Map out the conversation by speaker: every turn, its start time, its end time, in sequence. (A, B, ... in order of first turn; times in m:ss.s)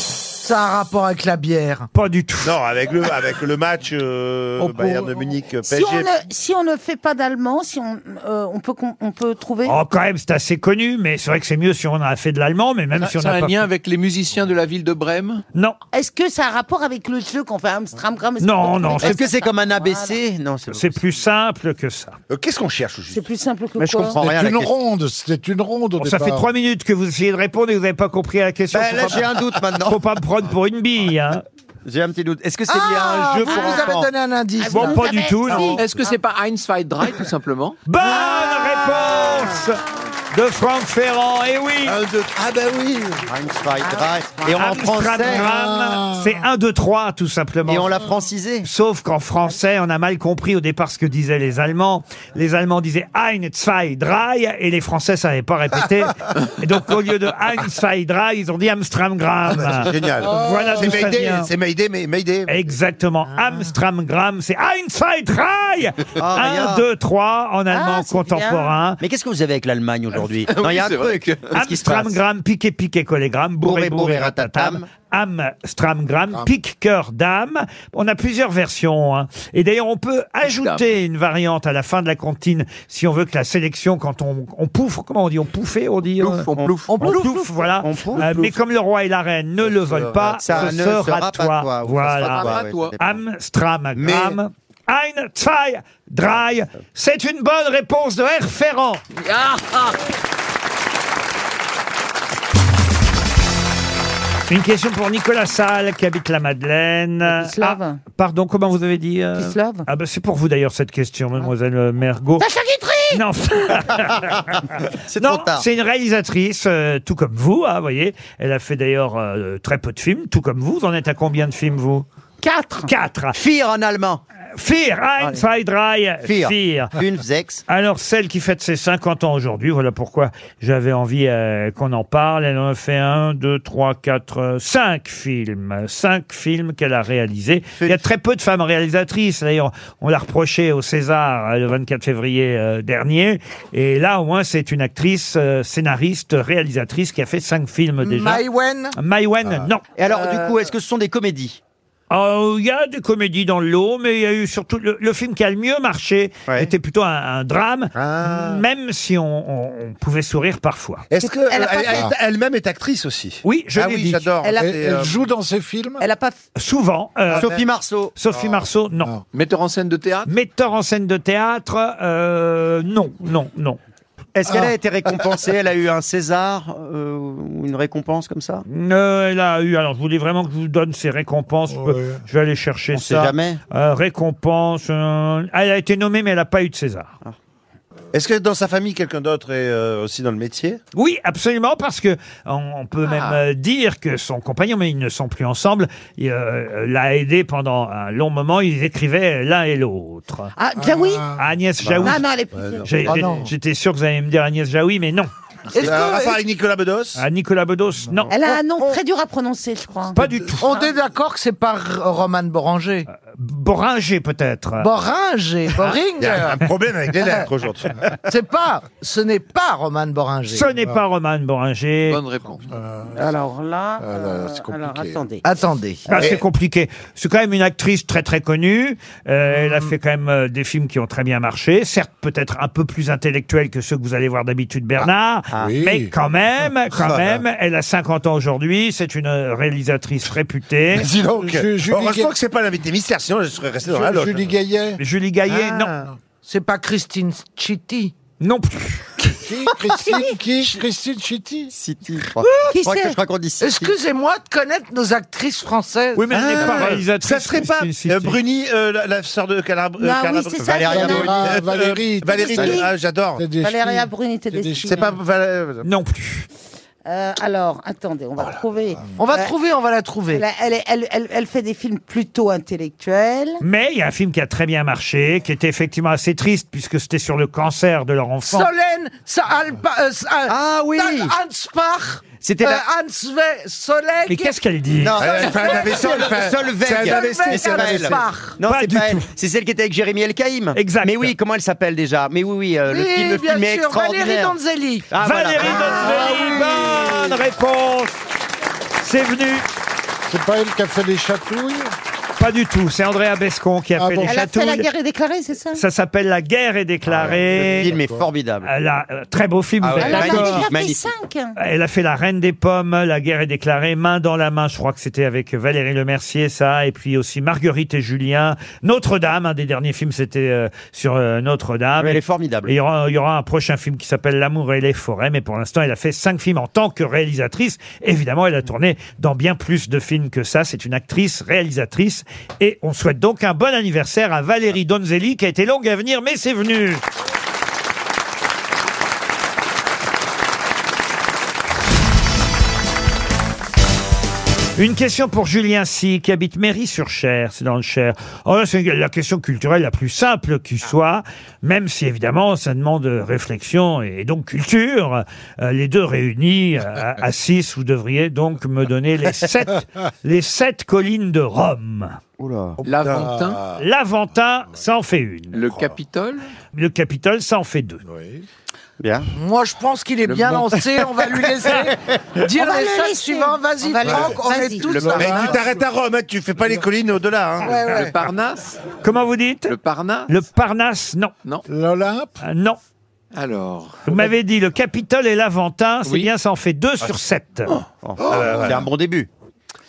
0:00.4-0:01.9 A
0:01.9-0:02.5 B
0:02.4-0:06.1 C
0:04.6-0:05.2 A
0:05.6-0:09.8 D
0:09.6-0:13.6 B
0:13.0-0:15.4 E
0:15.9-0:20.2 D
0:18.4-0:19.2 B
0:19.0-0:21.0 F
0:20.7-0:22.2 B
0:22.3-0:23.2 C
0:23.1-0:24.2 D
0:23.8-0:24.7 F
0:24.2-0:26.5 G
0:26.0-0:29.3 B
0:28.7-0:30.0 F
0:29.8-0:31.4 B
0:31.8-0:34.1 F
0:32.7-0:35.7 A
0:32.9-0:34.0 D
0:34.6-0:36.2 D
0:34.7-0:35.8 B
0:35.7-0:37.8 E
0:37.8-0:39.8 B
0:38.0-0:39.5 D
0:40.3-0:42.0 B
0:41.8-0:43.2 C
0:43.3-0:45.5 F
0:43.8-0:44.7 D
0:44.6-0:47.9 B
0:45.3-0:46.4 G
0:47.6-0:48.7 F
0:48.6-1:01.5 B
0:59.5-1:02.6 C
1:00.2-1:00.8 G
1:02.5-1:09.0 B
1:06.2-1:06.8 F
1:07.7-1:08.8 D
1:09.0-1:12.2 F
1:10.4-1:11.5 E
1:11.5-1:39.0 B
1:13.6-1:14.9 F
1:20.4-1:20.9 E
1:26.2-1:27.0 E
1:26.6-1:27.2 F
1:26.9-1:27.5 A
1:27.8-1:28.5 F
1:29.6-1:31.0 C
1:30.4-1:33.2 F
1:32.2-1:33.0 E
1:34.0-1:34.4 C
1:39.2-1:39.8 E
1:44.5-1:52.4 B
1:47.2-1:48.0 D
1:49.4-1:49.8 D
1:52.4-1:53.2 D
1:53.1-1:54.6 B
1:55.1-1:55.6 F
1:55.2-2:02.0 B
2:02.4-2:02.9 D
2:02.9-2:03.4 B
2:03.3-2:04.2 F
2:04.6-2:06.9 B
2:06.2-2:07.6 F
2:07.7-2:28.4 B
2:17.8-2:18.0 F
2:28.0-2:29.0 A
2:28.9-2:29.8 B
2:30.0-2:31.6 F
2:32.1-2:41.0 B
2:37.9-2:38.6 C
2:41.1-2:45.2 C
2:41.2-2:42.1 D
2:43.4-2:44.3 B
2:44.6-2:46.0 G
2:46.0-2:46.3 D
2:46.6-2:47.5 B
2:47.3-2:47.6 C
2:47.3-2:48.1 F
2:48.1-2:49.1 B
2:48.3-2:48.6 C
2:49.3-2:50.3 E
2:50.2-2:53.8 B
2:54.3-2:58.6 F
2:58.7-3:07.1 B
3:01.7-3:02.2 G
3:02.9-3:03.6 F
3:08.1-3:10.8 C
3:10.9-3:20.5 B
3:13.0-3:13.4 E
3:20.6-3:21.4 D
3:20.8-3:21.4 G
3:21.4-3:22.2 B
3:21.9-3:22.2 F
3:22.0-3:23.1 D
3:22.5-3:23.3 C
3:22.8-3:25.3 B
3:23.0-3:23.5 A
3:25.7-3:26.4 A
3:25.8-3:27.2 C
3:27.2-3:28.4 B
3:28.3-3:30.9 D
3:28.4-3:29.0 A
3:30.1-3:30.7 B
3:30.6-3:33.1 A
3:33.3-3:34.9 B
3:34.8-3:36.6 A
3:36.2-3:38.2 C
3:37.2-3:37.5 A
3:38.3-3:40.7 A
3:40.5-3:42.2 B
3:42.1-3:42.7 E
3:42.7-3:43.2 G
3:43.1-3:45.4 D
3:44.0-3:45.2 G
3:45.4-3:46.0 A
3:46.1-4:01.1 B
3:46.1-3:46.4 C
3:55.5-3:56.1 G
3:56.9-3:57.4 C
4:00.9-4:04.5 C
4:01.4-4:02.3 G
4:03.9-4:05.0 G
4:05.0-4:05.9 B
4:05.5-4:06.1 C
4:06.4-4:08.1 A
4:08.4-4:09.3 B
4:09.4-4:11.7 G
4:10.0-4:10.2 D
4:11.7-4:13.9 F
4:12.4-4:12.8 A
4:12.6-4:13.2 D
4:13.6-4:16.3 A
4:16.1-4:18.4 B
4:16.3-4:23.4 C
4:20.0-4:21.4 D
4:20.6-4:21.4 F
4:20.9-4:22.8 G
4:22.3-4:22.9 D
4:23.4-4:25.1 G
4:23.5-4:25.2 D
4:24.9-4:25.8 C
4:25.8-4:26.5 B
4:27.0-4:29.5 D
4:29.2-4:30.4 A
4:30.3-4:33.6 D
4:33.6-4:38.7 B
4:38.4-4:44.6 A
4:40.5-4:41.3 F
4:42.4-4:42.8 F
4:44.3-4:45.2 B
4:45.0-4:54.6 F
4:45.2-4:48.2 C
4:45.4-4:46.3 A
4:47.0-4:48.6 A
4:48.6-4:49.3 B
4:50.7-4:51.3 B
4:52.9-4:57.4 A
4:55.1-4:56.4 F
4:55.2-4:58.2 B
4:59.0-4:59.6 B
5:00.3-5:01.9 G
5:02.4-5:04.9 B
5:04.0-5:04.3 G
5:04.2-5:05.8 D
5:05.7-5:07.9 B
5:07.2-5:08.2 G
5:07.3-5:08.7 F
5:08.6-5:10.7 B
5:09.8-5:11.1 F
5:10.0-5:11.6 D
5:11.6-5:37.0 B
5:22.0-5:22.7 F
5:44.8-6:02.2 B
6:02.4-6:02.8 F
6:02.8-6:03.6 E
6:02.9-6:03.3 C
6:03.2-6:03.6 G
6:03.8-6:05.6 B
6:05.5-6:06.4 E
6:06.7-6:08.0 B
6:08.0-6:08.4 G
6:09.0-6:09.3 F
6:09.3-6:15.6 A
6:10.2-6:10.7 E
6:12.4-6:15.3 D
6:15.0-6:15.8 G
6:15.2-6:17.8 C
6:17.6-6:18.2 A
6:17.8-6:18.8 E
6:19.0-6:19.8 B
6:19.7-6:20.3 E
6:20.3-6:21.3 B
6:21.7-6:22.4 G
6:22.4-6:22.8 B
6:23.3-6:24.1 E
6:24.1-6:27.7 B
6:27.7-6:28.8 C
6:28.0-6:29.3 F
6:28.2-6:28.7 G